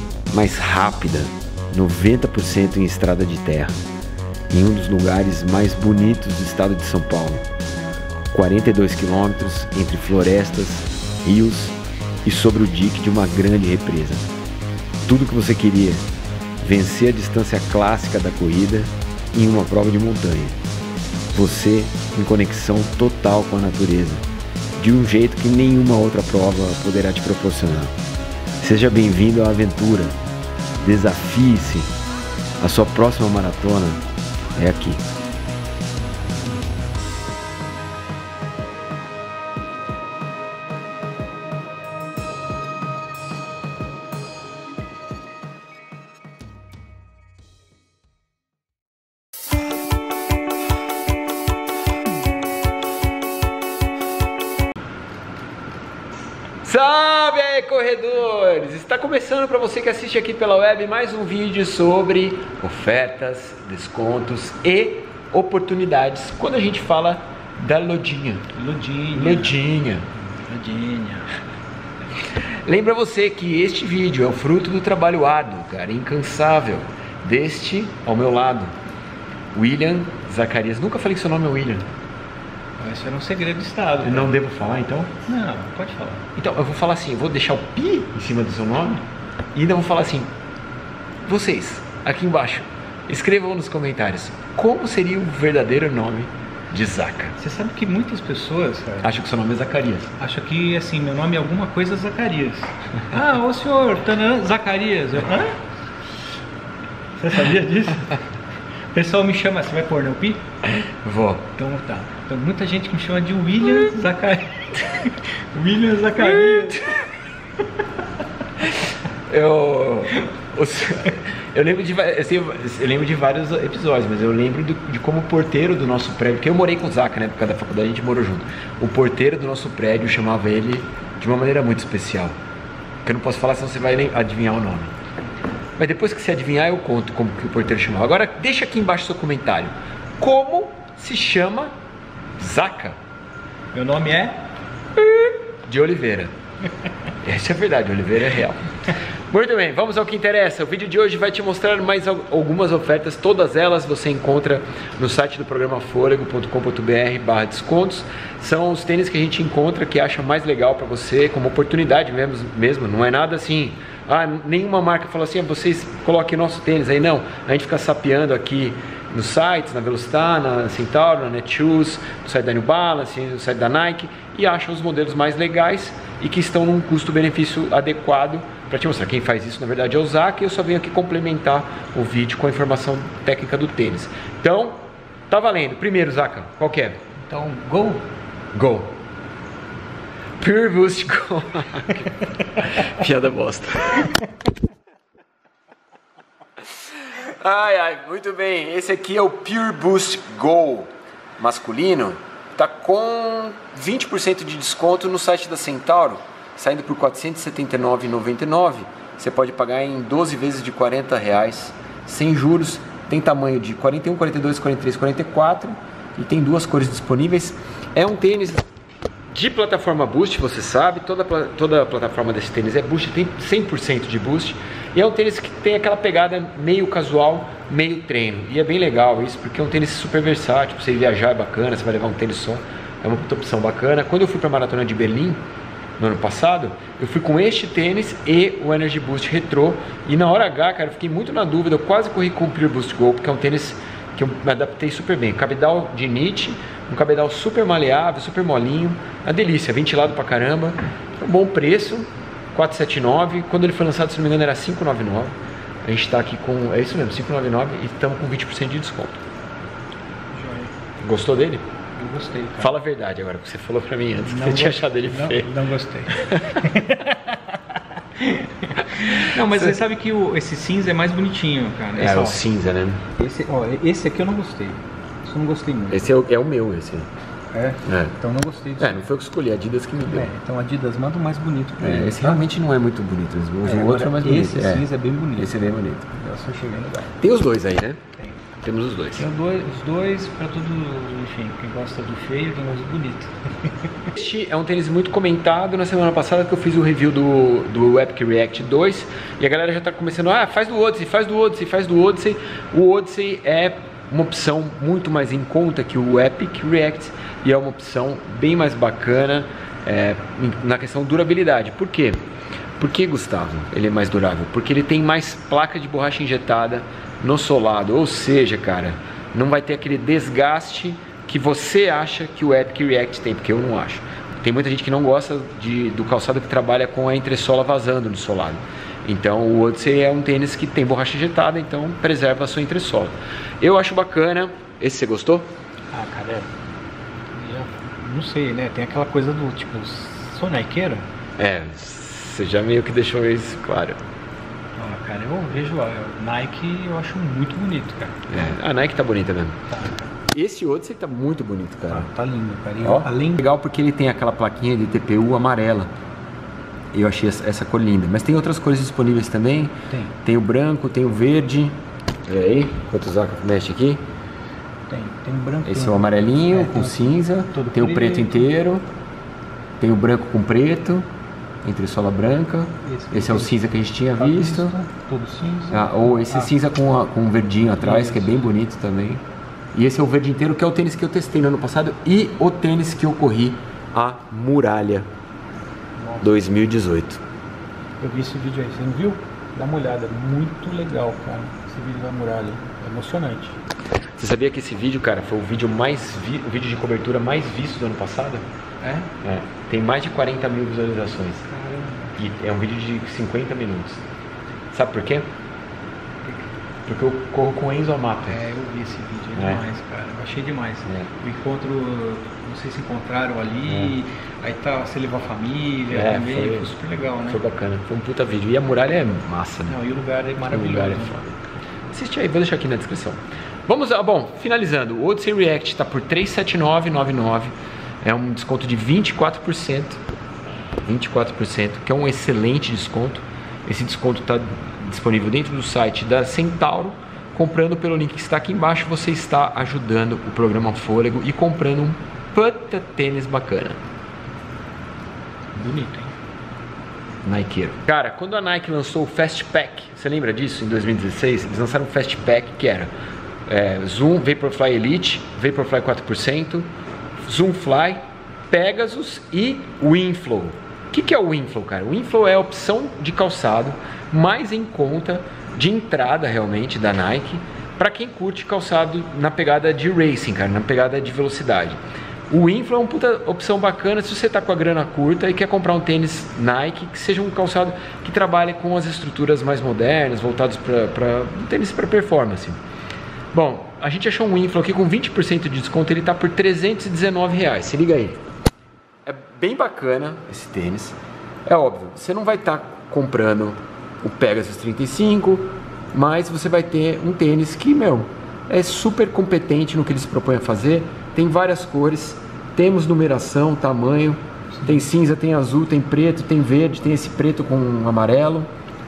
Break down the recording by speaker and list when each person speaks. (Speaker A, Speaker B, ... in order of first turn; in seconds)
Speaker A: 0.3-3.7, 4.5-7.4, 8.3-14.3, 15.1-16.1, 16.6-20.6, 21.3-24.2, 24.8-27.9, 28.6-30.2, 30.8-31.9, 32.6-34.0, 34.6-35.0, 56.6-68.4, 69.1-70.1, 72.6-78.8, 79.5-81.8, 84.0-85.1, 86.4-90.3, 91.2-97.3, 99.0-100.1, 110.7-111.5, 116.2-117.0, 119.3-132.3, 133.1-134.9, 135.8-141.7, 142.4-143.0, 145.0-146.3, 147.2-148.7, 149.3-187.0, 188.5-189.0, 190.4-194.1, 197.1-218.7, 219.3-235.4, 236.0-259.2, 261.0-261.6, 262.6-265.5, 266.1-266.6, 269.0-269.7, 272.0-273.0, 275.9-277.1, 277.9-278.1, 278.8-280.3, 281.8-286.1, 287.2-288.0, 288.6-289.2, 294.1-312.2, 312.8-335.5, 341.4-344.0, 348.3-349.6, 350.3-352.1, 352.8-355.9, 356.9-364.0, 365.6-368.9, 369.8-371.1, 371.6-374.8, 375.7-379.2, 379.7-385.1, 386.2-387.2, 394.2-398.4, 399.2-401.4, 402.2-404.0, 404.7-405.2, 406.9-408.4, 409.4-409.6, 413.7-413.9, 415.9-416.7, 417.3-419.8, 420.5-421.3, 421.9-430.0, 430.9-443.8, 447.2-452.9, 453.5-456.7, 457.3-471.8, 472.3-482.6, 483.3-488.2, 489.1-508.5
Speaker B: 68.5-69.6, 70.2-71.3, 82.8-84.4, 85.2-86.2, 97.4-99.2, 100.2-105.6, 107.2-108.2, 108.9-110.5, 111.6-117.0, 143.7-144.4, 187.3-188.1, 260.3-260.7, 262.0-262.7, 264.2-267.6, 268.1-272.4, 273.1-276.1, 277.5-279.1, 280.1-282.5, 283.6-287.2, 289.1-294.1, 335.9-336.5, 337.3-341.1, 344.8-348.3, 349.7-350.1, 351.9-353.5, 359.9-360.1, 364.9-368.5, 372.8-376.5, 377.8-378.4, 386.0-386.3, 388.0-393.6, 398.8-399.1, 401.4-402.3, 408.3-417.4, 419.7-421.2, 445.6-446.1, 504.6-504.9